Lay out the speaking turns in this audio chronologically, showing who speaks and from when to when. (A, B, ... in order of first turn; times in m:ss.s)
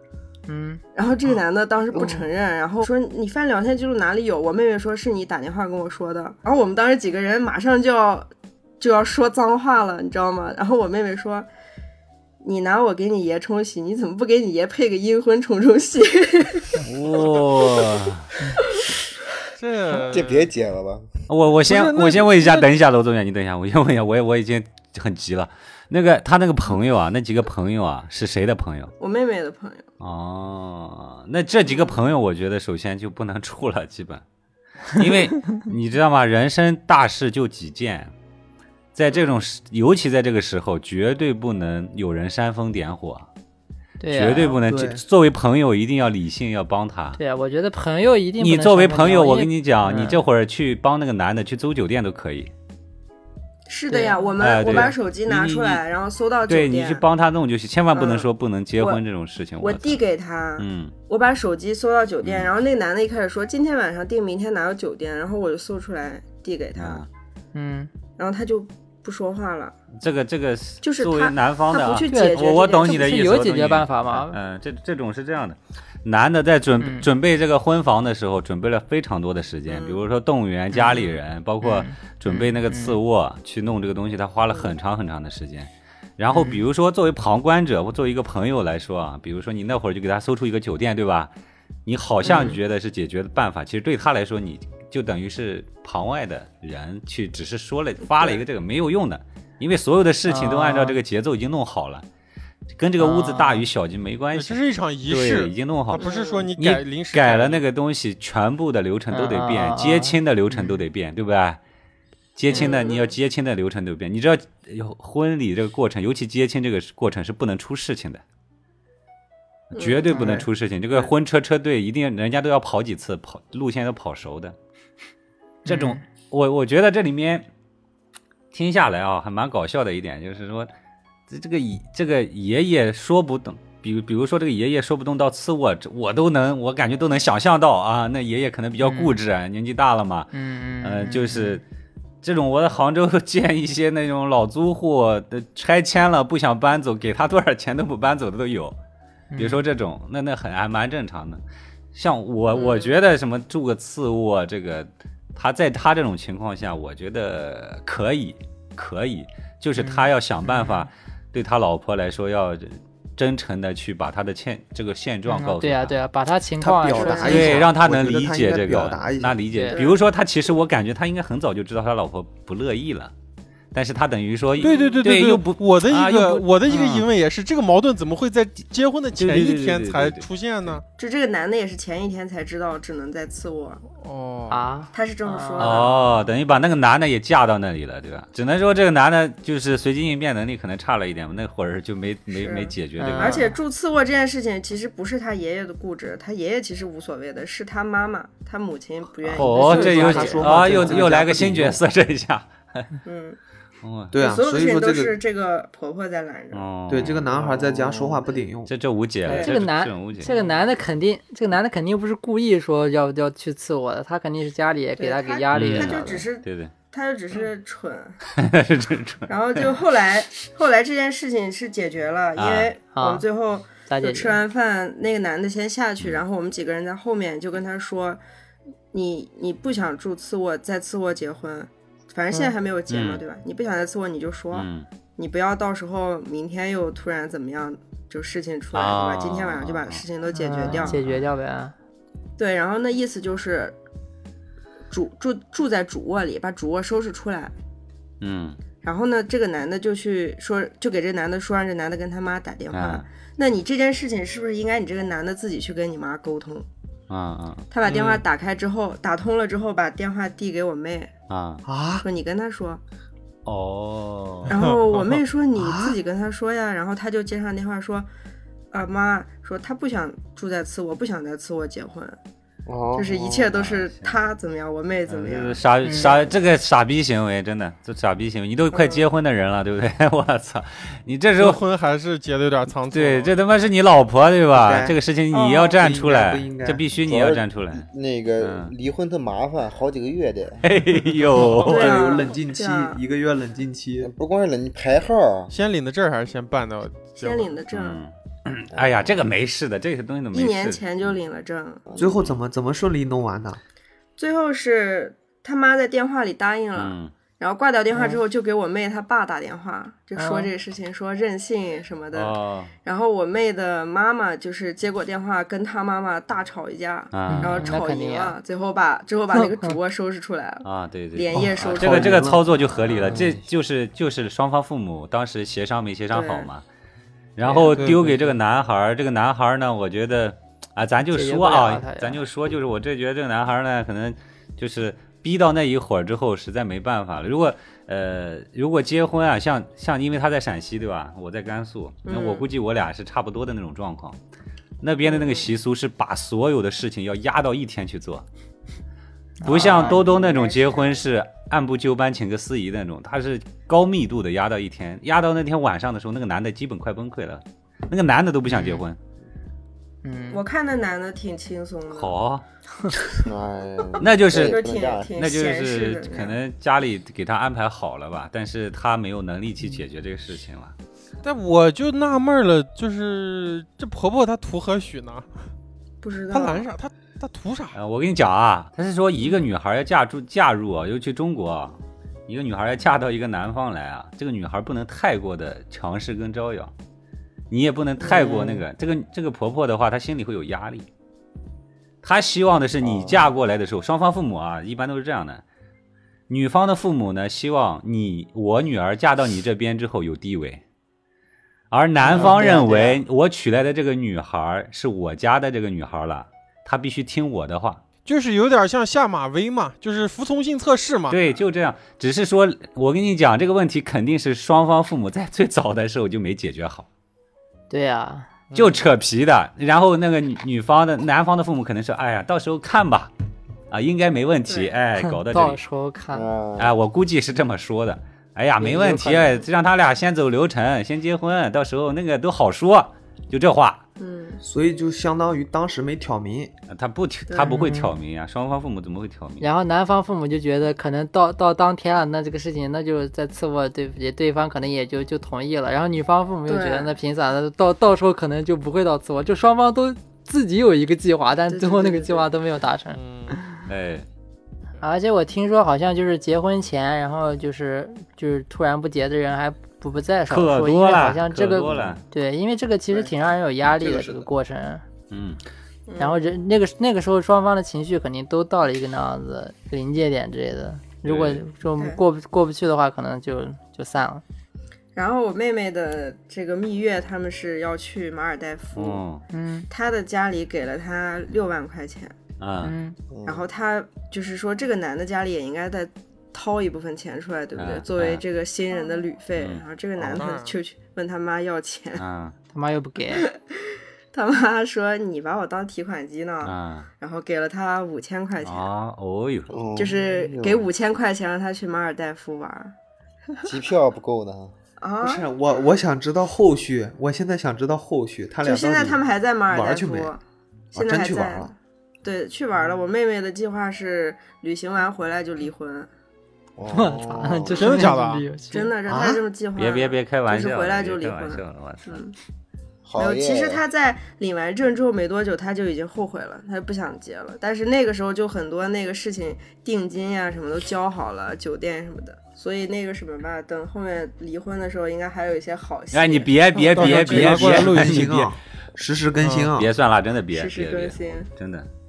0:00.5-0:00.8 A
0:00.9-0:11.5 B
0:12.4-0:16.8 B
0:16.8-0:18.3 C
0:19.6-0:20.5 D
0:20.0-0:21.1 E
0:21.3-0:28.9 C
0:21.7-0:22.6 D
0:29.0-0:29.8 B
0:30.0-0:34.2 C
0:34.9-0:38.1 C
0:38.9-0:43.3 C
0:44.0-0:44.6 A
0:44.1-0:47.2 C
0:44.6-0:45.0 F
0:47.2-0:50.2 A
0:48.4-0:52.5 C
0:53.7-0:57.0 B
0:53.9-0:54.2 A
0:54.4-0:55.8 C
0:56.5-1:00.0 C
0:57.9-0:59.0 B
0:59.6-1:07.0 B
1:00.6-1:00.9 C
1:02.2-1:02.5 C
1:06.8-1:07.1 C
1:07.5-1:07.9 A
1:08.2-1:09.7 B
1:10.0-1:31.3 C
1:10.8-1:13.1 B
1:12.1-1:14.4 A
1:16.8-1:17.1 A
1:19.7-1:20.0 B
1:20.7-1:21.1 A
1:21.6-1:23.0 A
1:26.3-1:26.6 A
1:31.8-1:42.0 C
1:32.2-1:32.6 A
1:38.2-1:38.4 B
1:40.3-1:41.0 A
1:42.8-1:46.0 C
1:43.0-1:43.7 A
1:44.3-1:47.6 D
1:46.0-1:46.5 B
1:46.6-1:51.6 C
1:49.1-1:50.8 A
1:52.4-1:58.2 C
1:52.5-1:53.1 B
1:59.7-2:04.5 C
1:59.7-2:00.2 B
2:00.1-2:01.1 F
2:05.6-2:06.0 A
2:05.6-2:07.5 C
2:08.5-2:10.7 C
2:11.3-2:20.3 C
2:18.8-2:19.2 A
2:20.3-2:21.6 A
2:20.8-2:21.6 C
2:22.2-2:28.7 C
2:29.3-2:29.6 A
2:29.4-2:31.4 C
2:31.9-2:46.0 C
2:32.5-2:32.9 B
2:39.8-2:40.9 A
2:45.3-2:47.6 A
2:46.6-2:49.4 F
2:46.9-2:47.6 B
2:47.2-2:53.1 C
2:49.5-2:49.8 A
2:49.7-2:50.0 B
2:53.7-2:56.9 C
2:54.6-3:00.8 D
2:54.7-2:55.0 B
2:59.1-3:00.8 C
3:01.0-3:03.8 B
3:04.0-3:04.6 D
3:04.5-3:06.0 A
3:04.9-3:05.9 B
3:05.6-3:13.4 C
3:12.3-3:20.8 B
3:13.0-3:13.5 A
3:19.3-3:21.8 F
3:19.3-3:22.9 C
3:19.5-3:21.1 A
3:23.0-3:23.4 B
3:23.8-3:24.1 C
3:24.1-3:25.2 F
3:24.2-3:26.8 B
3:26.5-3:27.3 C
3:26.9-3:28.7 F
3:27.4-3:28.2 E
3:28.6-3:30.3 C
3:29.3-3:29.6 B
3:29.3-3:36.2 A
3:35.0-3:38.2 B
3:35.5-3:36.7 C
3:38.3-3:39.7 C
3:39.3-3:48.2 B
3:42.4-3:42.7 C
3:42.9-3:43.2 A
3:43.8-3:44.4 A
3:48.9-4:01.0 B
3:52.9-3:53.2 C
3:54.5-3:54.9 C
3:58.7-4:00.0 C
4:00.3-4:01.7 A
4:00.7-4:01.2 C
4:02.4-4:03.8 B
4:04.9-4:07.5 B
4:08.2-4:08.6 C
4:08.8-4:16.7 B
4:12.7-4:13.0 C
4:17.1-4:17.7 C
4:17.7-4:21.1 B
4:17.9-4:18.2 D
4:21.3-4:21.6 C
4:21.6-4:22.0 F
4:22.0-4:22.8 B
4:23.4-4:24.6 C
4:24.5-4:25.2 D
4:24.5-4:28.1 B
4:25.5-4:26.0 F
4:28.7-4:32.2 B
4:32.7-4:33.4 E
4:32.9-4:36.3 B
4:33.5-4:34.1 C
4:35.1-4:41.6 C
4:35.8-4:36.1 A
4:38.7-4:39.0 B
4:41.4-4:43.4 D
4:42.9-4:47.8 C
4:44.5-4:44.9 F
4:45.3-4:45.8 B
4:45.8-4:46.8 F
4:47.0-4:50.6 E
4:48.4-4:48.7 C
4:50.6-4:52.0 C
4:51.3-4:54.1 F
4:51.7-4:53.0 B
4:54.0-4:55.5 E
4:55.5-4:57.6 D
4:57.1-4:58.0 B
4:57.7-5:01.2 C
4:58.7-4:59.2 E
5:00.3-5:01.8 B
5:01.9-5:02.2 E
5:02.0-5:03.6 F
5:04.2-5:22.4 B
5:06.7-5:07.1 C
5:10.2-5:10.5 A
5:12.1-5:12.7 C
5:17.1-5:17.7 C
5:17.3-5:18.3 A
5:19.3-5:19.7 A
5:20.6-5:26.6 C
5:21.3-5:23.3 F
5:23.1-5:23.4 E
5:26.1-5:26.5 B
5:27.4-5:44.2 C
5:27.4-5:28.3 F
5:31.1-5:32.2 A
5:42.0-5:42.4 B
5:44.8-5:48.2 C
5:45.0-5:45.5 B
5:49.4-5:50.0 A
5:49.4-5:59.0 C
5:49.4-5:51.0 B
5:58.5-5:58.8 A
6:00.0-6:00.4 A
6:00.3-6:02.2 B
6:01.9-6:02.4 C
6:03.2-6:05.1 E
6:04.0-6:10.7 C
6:04.3-6:06.4 B
6:11.2-6:15.5 D
6:16.0-6:16.7 B
6:16.3-6:17.8 D
6:17.7-6:26.7 C
6:27.5-6:30.9 C
6:28.0-6:28.4 B
6:28.1-6:28.6 A
6:32.0-6:35.4 C
6:32.8-6:33.3 E
6:36.3-6:40.6 C
6:41.7-6:47.8 C
6:42.1-6:43.0 A
6:48.0-6:51.2 D
6:51.1-6:56.8 C
6:57.7-6:58.4 A
6:58.5-7:03.1 C
7:03.7-7:05.6 C
7:04.5-7:04.7 B
7:05.0-7:06.3 A
7:06.1-7:06.7 E
7:06.6-7:13.8 C
7:08.6-7:09.3 A
7:14.0-7:14.4 B
7:14.4-7:16.5 F
7:16.7-7:19.5 C
7:17.4-7:17.9 A
7:19.4-7:33.4 A
7:26.5-7:26.9 B
7:31.5-7:32.3 B
7:32.9-7:33.4 D
7:33.7-7:34.1 C
7:34.8-7:44.8 A
7:40.3-7:42.0 C
7:43.7-7:44.2 F
7:45.1-7:45.4 C
7:45.9-7:46.2 B
7:46.0-7:54.2 A
7:51.0-7:51.4 C
7:54.9-7:59.0 B
7:58.7-7:59.2 C
7:59.3-7:59.6 A
7:59.7-8:02.1 B
8:02.4-8:02.7 C
8:02.6-8:02.9 A
8:03.1-8:03.4 E
8:03.2-8:12.0 B
8:07.6-8:08.2 C
8:09.4-8:09.6 C
8:10.1-8:10.6 D
8:12.0-8:12.3 C
8:12.5-8:13.2 A
8:13.1-8:18.7 B
8:16.4-8:16.9 C
8:18.4-8:19.6 C
8:19.5-8:20.6 E
8:19.7-8:22.7 B
8:23.4-8:24.5 E
8:24.8-8:25.2 B
8:25.0-8:30.1 F
8:28.4-8:30.2 B
8:30.7-8:31.5 F
8:30.7-8:35.9 B
8:36.6-8:37.6 E
8:36.7-8:38.7 A
8:37.5-8:38.3 D
8:38.5-8:42.1 B
8:38.9-8:39.2 F
8:39.6-8:42.0 C
8:42.8-8:43.6 E
8:43.0-8:56.9 B
8:55.9-8:58.3 C
8:56.6-8:58.3 D
8:56.8-8:59.7 F
8:59.2-8:59.5 D
8:59.6-9:01.7 C
9:00.3-9:01.3 B